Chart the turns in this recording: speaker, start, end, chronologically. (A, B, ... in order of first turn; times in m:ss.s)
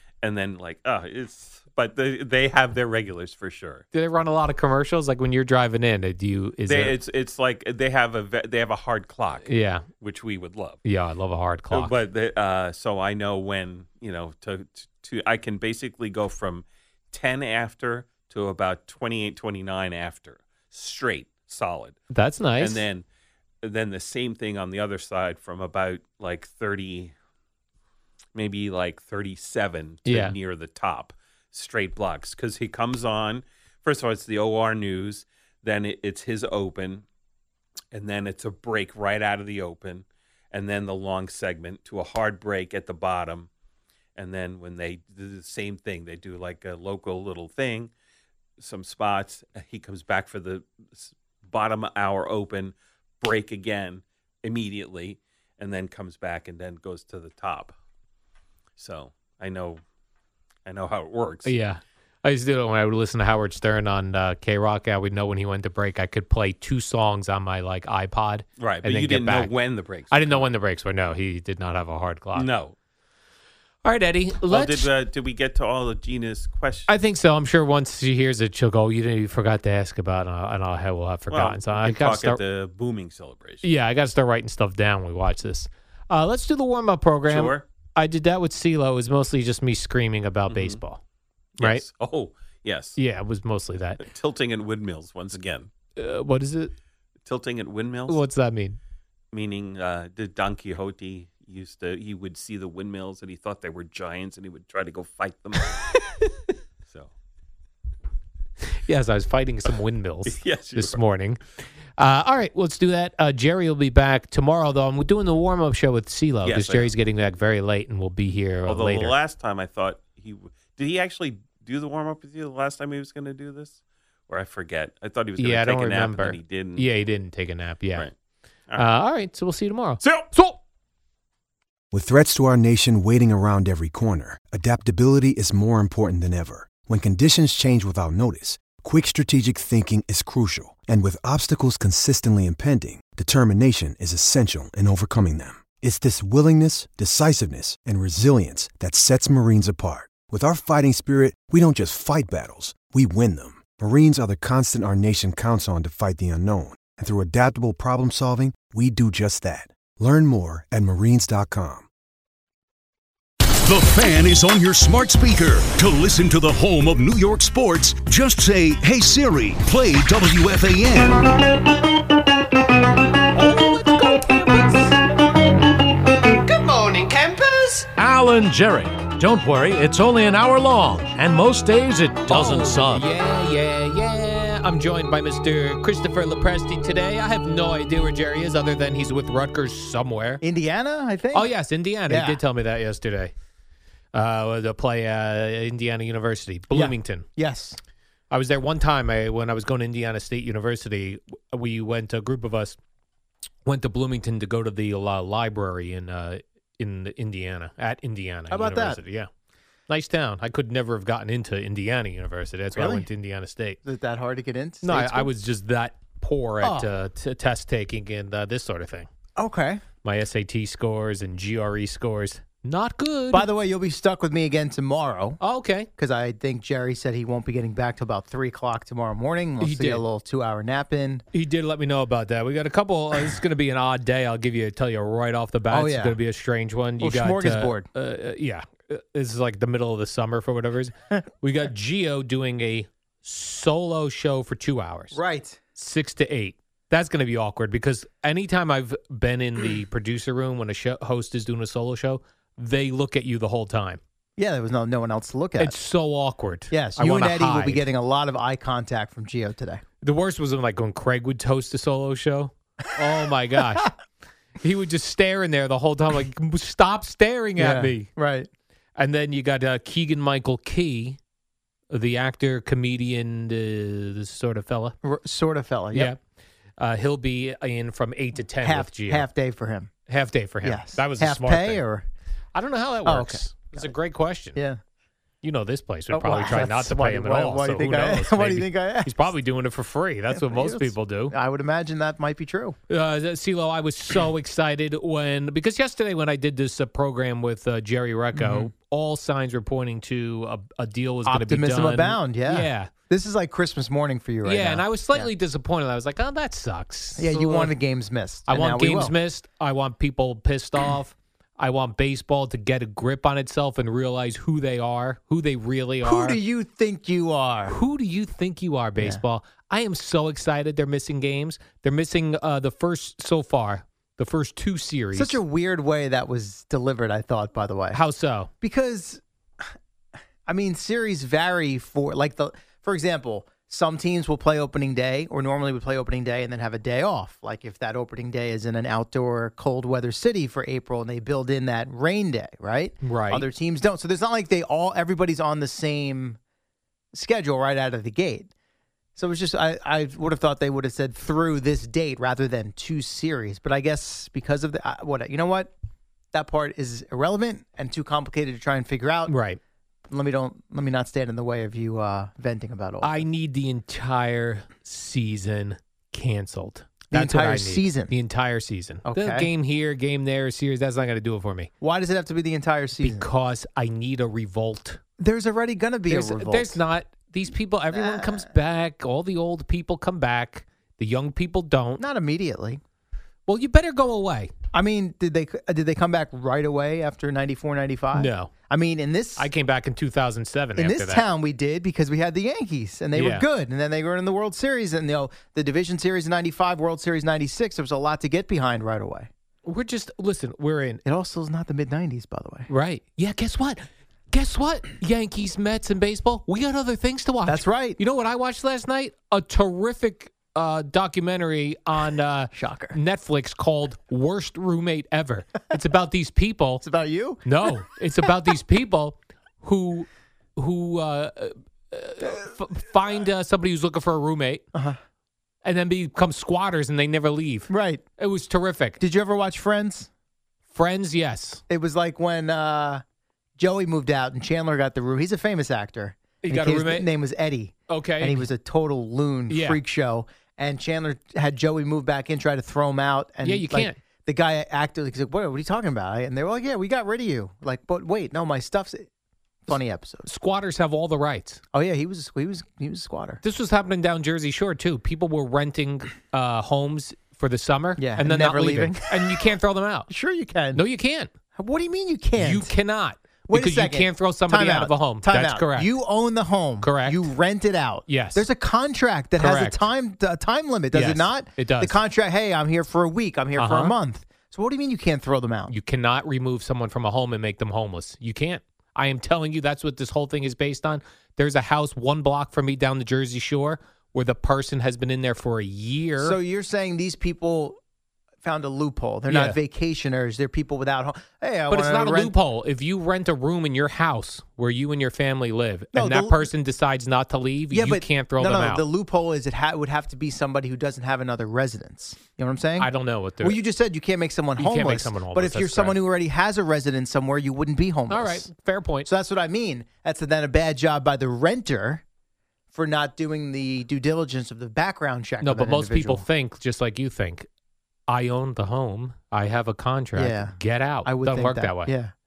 0:00.2-0:03.8 A
0:03.9-0:07.0 B
0:06.7-0:10.8 A
0:09.4-0:09.9 B
0:10.8-0:12.0 B
0:11.7-0:22.0 A
0:22.1-0:22.8 B
0:22.6-0:23.0 A
0:23.6-0:27.1 A
0:28.4-0:37.0 A
0:30.1-0:30.4 B
0:37.9-0:43.5 A
0:44.2-0:47.9 A
0:48.6-0:57.7 A
0:58.8-0:59.8 A
1:00.7-1:01.5 A
1:01.4-1:09.5 B
1:08.6-1:10.5 A
1:10.1-1:12.5 B
1:12.4-1:12.8 A
1:13.8-1:14.9 B
1:14.5-1:16.9 A
1:16.9-1:22.4 B
1:21.3-1:23.6 A
1:23.6-1:31.0 B
1:27.3-1:27.6 A
1:30.5-1:30.8 A
1:31.6-1:33.0 A
1:33.0-1:34.0 B
1:34.0-1:35.7 A
1:36.0-1:36.7 B
1:37.3-1:38.2 A
1:38.1-1:38.8 B
1:39.3-1:45.9 A
1:46.0-1:46.3 B
1:46.9-1:47.1 A
1:48.8-1:51.4 B
1:50.3-1:51.0 A
1:52.0-1:59.2 B
1:56.4-1:56.9 A
1:58.7-2:06.9 A
2:05.4-2:08.1 B
2:08.8-2:10.6 B
2:10.0-2:10.3 A
2:11.9-2:41.9 C
2:43.6-2:51.4 D
2:53.3-2:55.0 B
2:58.0-3:03.1 E
3:02.3-3:10.4 B
3:10.4-3:11.5 F
3:11.3-3:13.3 B
3:12.1-3:12.4 F
3:14.1-3:17.3 B
3:16.7-3:17.8 F
3:18.3-3:22.8 B
3:23.6-3:29.3 B
3:28.5-3:29.0 F
3:29.9-3:33.8 B
3:32.8-3:33.1 F
3:33.8-3:35.3 F
3:34.8-3:39.1 B
3:36.6-3:36.9 F
3:39.4-3:39.8 F
3:40.0-3:43.5 B
3:43.3-3:45.4 F
3:45.4-3:45.9 B
3:46.0-3:51.2 F
3:49.6-3:50.0 B
3:51.3-4:05.2 B
3:55.7-3:56.2 F
3:57.0-3:57.9 F
4:05.1-4:05.6 F
4:05.8-4:14.0 B
4:14.4-4:15.8 F
4:15.6-4:17.8 B
4:16.7-4:19.8 F
4:20.0-4:23.9 B
4:24.6-4:28.1 B
4:27.6-4:28.5 F
4:29.0-4:31.2 B
4:31.9-4:35.0 B
4:35.0-4:36.1 F
4:35.9-4:36.2 B
4:36.8-4:39.3 B
4:38.6-4:39.9 F
4:40.1-4:41.8 B
4:40.6-4:42.1 F
4:42.5-4:44.6 B
4:43.0-4:43.9 F
4:44.6-4:44.8 F
4:45.4-4:51.4 B
4:46.1-4:49.3 F
4:50.3-4:52.8 F
4:52.9-5:02.9 B
4:58.3-4:58.7 F
5:01.3-5:05.3 F
5:04.4-5:07.7 B
5:07.2-5:09.2 F
5:08.5-5:16.4 B
5:16.0-5:17.8 F
5:17.7-5:25.4 B
5:25.1-5:28.0 F
5:27.9-5:28.5 B
5:28.6-5:29.2 F
5:30.5-5:46.4 F
5:43.0-5:43.5 B
5:47.1-5:48.5 F
5:49.2-5:55.7 F
5:56.3-5:59.3 F
5:59.3-5:59.6 B
6:00.1-6:03.2 F
6:03.0-6:11.7 B
6:07.1-6:08.1 F
6:09.0-6:09.5 F
6:11.8-6:13.3 F
6:13.0-6:15.0 B
6:15.2-6:16.8 F
6:16.1-6:22.0 B
6:17.9-6:18.5 F
6:22.0-6:22.8 F
6:23.5-6:24.5 B
6:24.7-6:29.5 F
6:28.1-6:28.5 B
6:29.4-6:31.3 B
6:30.8-6:39.3 F
6:33.1-6:33.5 B
6:39.6-6:41.0 B
6:41.0-6:42.7 F
6:42.7-6:56.8 B
6:47.5-6:48.0 F
6:52.5-6:53.0 F
6:56.8-6:57.5 F
6:57.4-7:04.6 B
7:04.7-7:05.0 F
7:05.6-7:09.0 B
7:07.7-7:08.0 F
7:09.0-7:10.1 F
7:10.7-7:11.6 B
7:11.7-7:13.0 F
7:13.6-7:29.1 F
7:16.4-7:17.1 B
7:17.9-7:18.5 B
7:19.5-7:19.8 B
7:23.4-7:24.0 B
7:29.7-7:30.3 F
7:30.3-7:31.6 B
7:31.7-7:33.4 F
7:33.4-7:40.1 B
7:38.0-7:39.3 F
7:40.1-7:40.8 F
7:40.7-7:41.3 B
7:41.6-7:42.7 F
7:42.4-7:45.9 B
7:43.5-7:55.7 F
7:46.8-7:47.3 B
7:48.1-7:48.4 B
7:49.4-7:49.8 B
7:50.9-7:52.0 B
7:53.6-7:54.0 B
7:55.7-8:06.4 B
8:06.2-8:07.8 F
8:08.4-8:12.3 F
8:09.3-8:09.6 B
8:11.7-8:18.8 B
8:15.9-8:16.5 F
8:17.7-8:22.9 F
8:22.8-8:23.6 B
8:23.4-8:28.5 F
8:24.6-8:26.0 B
8:28.1-8:29.1 B
8:29.0-8:32.0 F
8:32.7-8:36.2 F
8:35.4-8:37.5 B
8:38.1-8:42.0 B
8:40.2-8:42.1 F